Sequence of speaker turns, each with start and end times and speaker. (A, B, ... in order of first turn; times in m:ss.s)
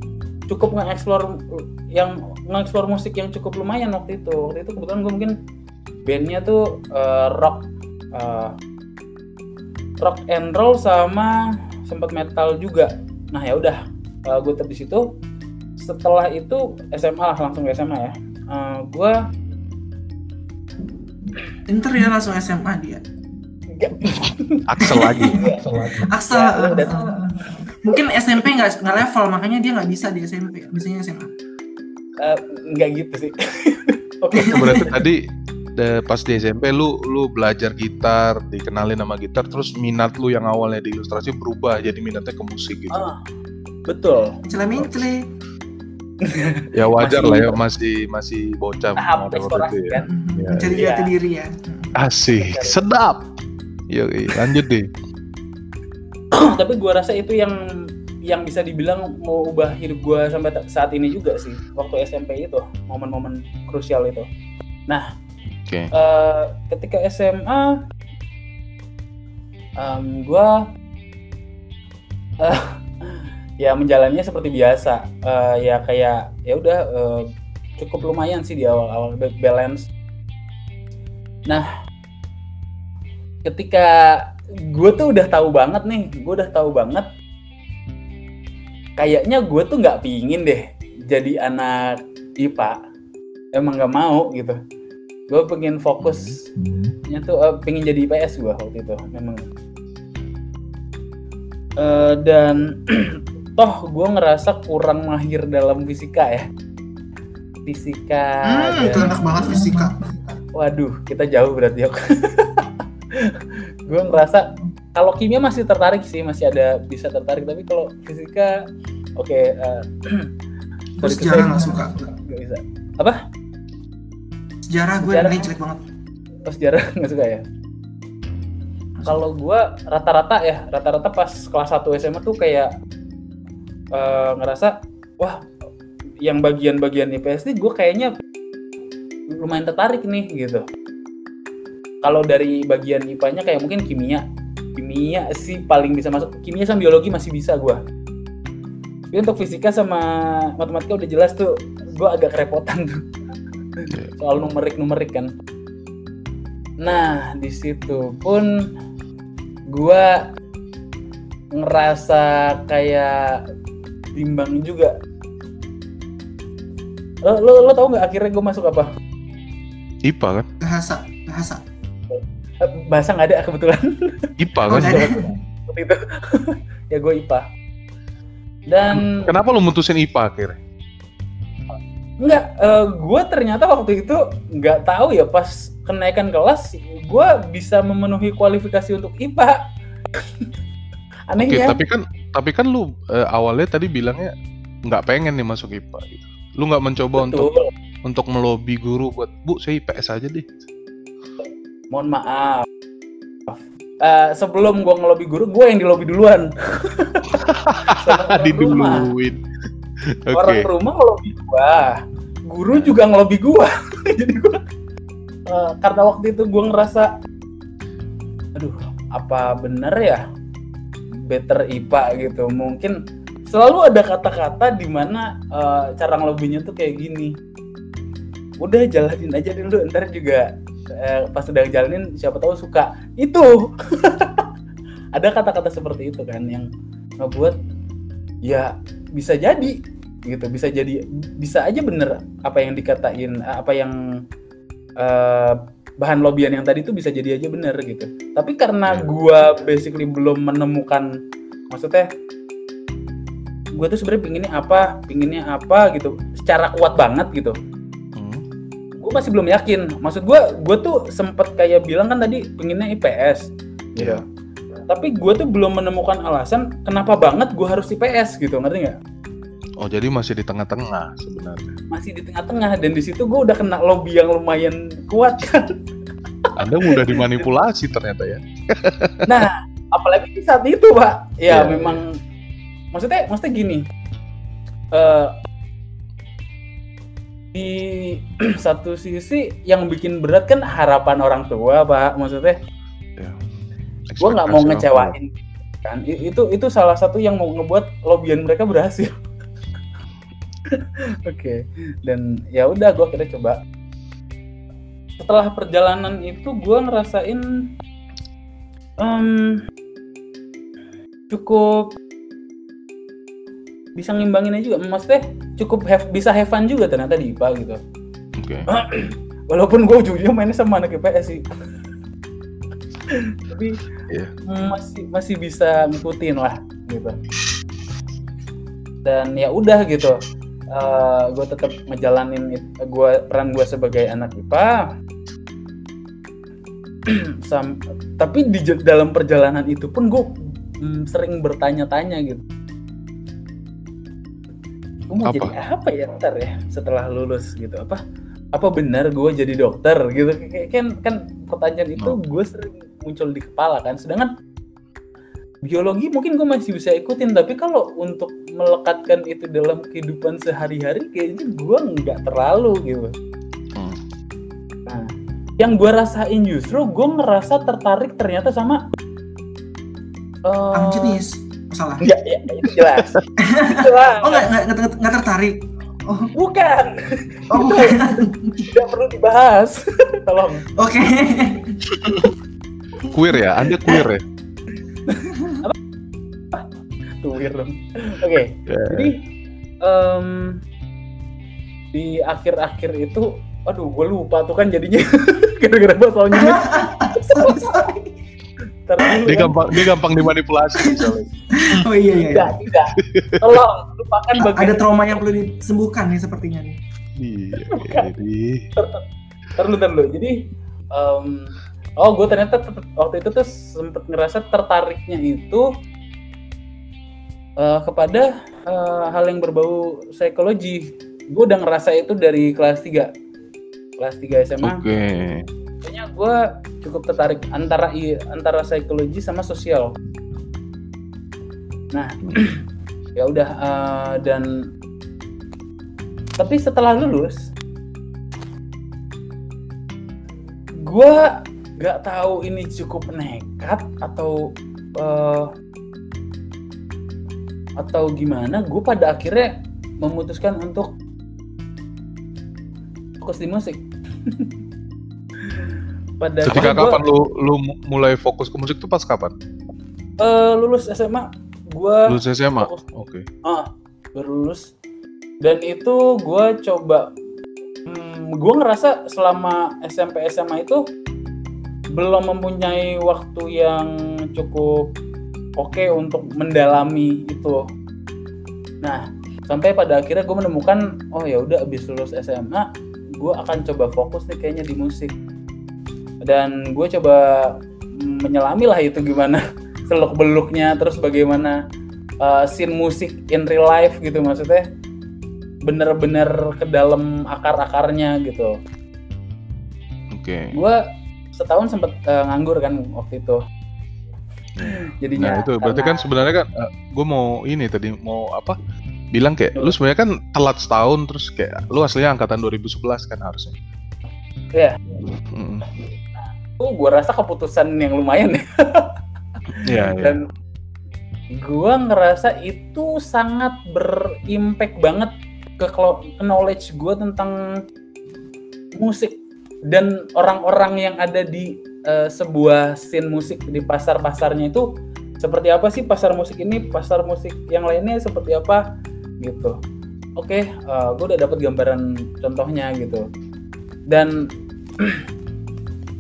0:00.5-0:05.3 A
0:06.0-0:08.5 A
0:10.0-0:15.0 A
0:15.8-0:19.2 A
0:21.7-0:23.0 B
0:23.7-0:27.2 A
0:24.2-0:25.9 C
0:24.9-0:31.3 B
0:32.2-0:35.0 A
0:34.3-0:34.9 B
0:34.5-0:35.2 C
0:35.8-0:43.0 C
0:42.9-0:43.2 A
0:43.9-0:44.4 A
0:44.4-0:45.3 B
0:46.2-0:47.6 A
0:46.7-0:50.8 C
0:49.0-0:50.1 A
0:50.0-0:52.0 B
0:50.7-0:51.1 A
0:52.0-0:53.2 C
0:52.4-0:52.8 A
0:53.9-0:54.9 C
0:56.3-0:57.6 A
0:58.3-1:04.3 A
1:05.9-1:07.8 A
1:09.8-1:10.6 A
1:12.4-1:19.8 A
1:23.4-1:27.1 A
1:29.0-1:32.8 A
1:33.5-1:34.6 A
1:35.3-1:36.4 A
1:36.0-1:36.4 C
1:37.1-1:39.4 A
1:41.8-1:46.4 A
1:47.6-1:49.6 A
1:48.4-1:50.4 B
1:50.5-1:58.6 A
1:59.2-2:00.3 A
2:01.0-2:02.1 B
2:01.0-2:03.2 A
2:04.7-2:05.8 B
2:05.0-2:05.5 A
2:06.4-2:07.4 A
2:09.0-2:12.7 A
2:13.9-2:15.4 A
2:16.2-2:18.1 A
2:19.4-2:20.6 A
2:22.0-2:24.2 A
2:24.8-2:27.8 A
2:29.1-2:33.0 A
2:33.8-2:35.3 A
2:36.8-2:38.6 A
2:39.7-2:40.3 A
2:41.5-2:43.4 A
2:44.1-2:44.9 A
2:47.2-2:48.9 A
2:50.0-2:50.5 C
2:50.6-2:51.6 B
2:52.1-2:57.4 A
2:54.4-2:55.1 C
2:54.7-2:55.4 B
2:58.7-2:59.3 A
2:58.9-3:00.6 C
3:02.2-3:09.6 A
3:11.3-3:11.8 A
3:11.4-3:14.3 C
3:14.8-3:17.5 C
3:17.2-3:17.7 A
3:18.0-3:20.4 C
3:21.9-3:22.7 A
3:23.5-3:27.4 A
3:27.3-3:29.4 C
3:28.0-3:29.1 A
3:30.1-3:30.7 C
3:30.3-3:31.9 A
3:32.5-3:34.6 A
3:35.5-3:37.1 A
3:38.6-3:40.2 A
3:41.3-3:43.0 A
3:43.5-3:47.4 A
3:48.6-3:54.5 A
3:55.1-3:56.7 A
3:57.2-3:57.6 A
3:58.4-3:59.7 A
4:00.2-4:04.0 A
4:05.0-4:11.1 A
4:11.7-4:12.1 A
4:13.7-4:17.6 A
4:18.2-4:18.4 C
4:19.0-4:24.2 A
4:24.9-4:29.0 A
4:29.8-4:31.7 C
4:31.9-4:35.8 A
4:36.6-4:39.4 C
4:36.8-4:37.4 A
4:39.3-4:42.2 A
4:41.5-4:42.0 C
4:42.9-4:43.8 A
4:44.9-4:45.3 A
4:47.5-4:52.6 A
4:54.1-4:55.2 C
4:54.2-4:55.3 A
4:55.8-4:59.1 A
5:00.7-5:03.6 A
5:05.2-5:07.4 A
5:09.0-5:09.6 A
5:11.3-5:11.9 A
5:13.9-5:17.8 A
5:18.4-5:18.6 C
5:18.7-5:21.4 A
5:23.1-5:23.8 A
5:24.5-5:27.1 A
5:29.0-5:30.2 A
5:30.7-5:34.9 A
5:37.1-5:42.4 A
5:45.1-5:48.0 A
5:45.2-5:45.5 C
5:48.5-5:54.3 A
5:55.6-6:03.1 A
6:03.7-6:04.0 C
6:04.8-6:08.8 A
6:10.4-6:11.2 A
6:10.7-6:12.0 B
6:12.0-6:14.5 A
6:12.7-6:13.2 C
6:13.4-6:16.3 B
6:16.4-6:20.6 A
6:17.5-6:18.7 B
6:20.8-6:22.3 B
6:23.1-6:24.1 B
6:23.1-6:24.2 C
6:25.1-6:25.7 A
6:25.3-6:25.6 B
6:27.2-6:29.2 A
6:28.7-6:29.1 C
6:29.8-6:30.6 A
6:31.9-6:38.0 A
6:36.3-6:38.0 B
6:38.8-6:39.6 A
6:39.2-6:41.3 C
6:40.8-6:42.6 B
6:42.2-6:44.8 A
6:42.9-6:43.6 C
6:44.4-6:46.8 B
6:47.2-6:48.6 C
6:47.7-6:48.1 A
6:48.8-6:49.0 A
6:49.6-6:50.4 A
6:50.9-6:55.7 A
6:57.6-7:03.1 A
7:04.0-7:04.8 A
7:04.6-7:05.4 C
7:05.8-7:09.9 A
7:11.9-7:12.6 A
7:13.2-7:14.5 A
7:16.4-7:17.5 A
7:20.8-7:24.4 A
7:25.0-7:25.5 A
7:27.8-7:30.9 A
7:33.2-7:34.5 A
7:35.4-7:37.0 A
7:36.4-7:39.3 C
7:40.2-7:42.8 A
7:42.1-7:43.2 C
7:43.4-7:44.7 A
7:45.4-7:47.1 A
7:47.8-7:50.8 A
7:51.9-7:54.9 A
7:55.6-7:57.6 A
7:58.8-8:02.7 A
8:03.2-8:05.1 A
8:06.2-8:11.6 A
8:12.2-8:14.6 A
8:15.6-8:18.6 A
8:20.1-8:20.5 C
8:20.5-8:20.8 A
8:21.3-8:23.4 A
8:24.6-8:28.5 C
8:24.6-8:26.1 A
8:29.1-8:33.6 C
8:35.3-8:35.7 C
8:36.6-8:38.9 A
8:39.6-8:40.2 C
8:39.8-8:40.2 A
8:41.3-8:47.6 A
8:48.8-8:49.2 A
8:49.7-8:54.6 A
8:55.2-8:58.6 A
8:59.2-8:59.6 A
9:00.2-9:03.0 A
9:03.9-9:04.2 A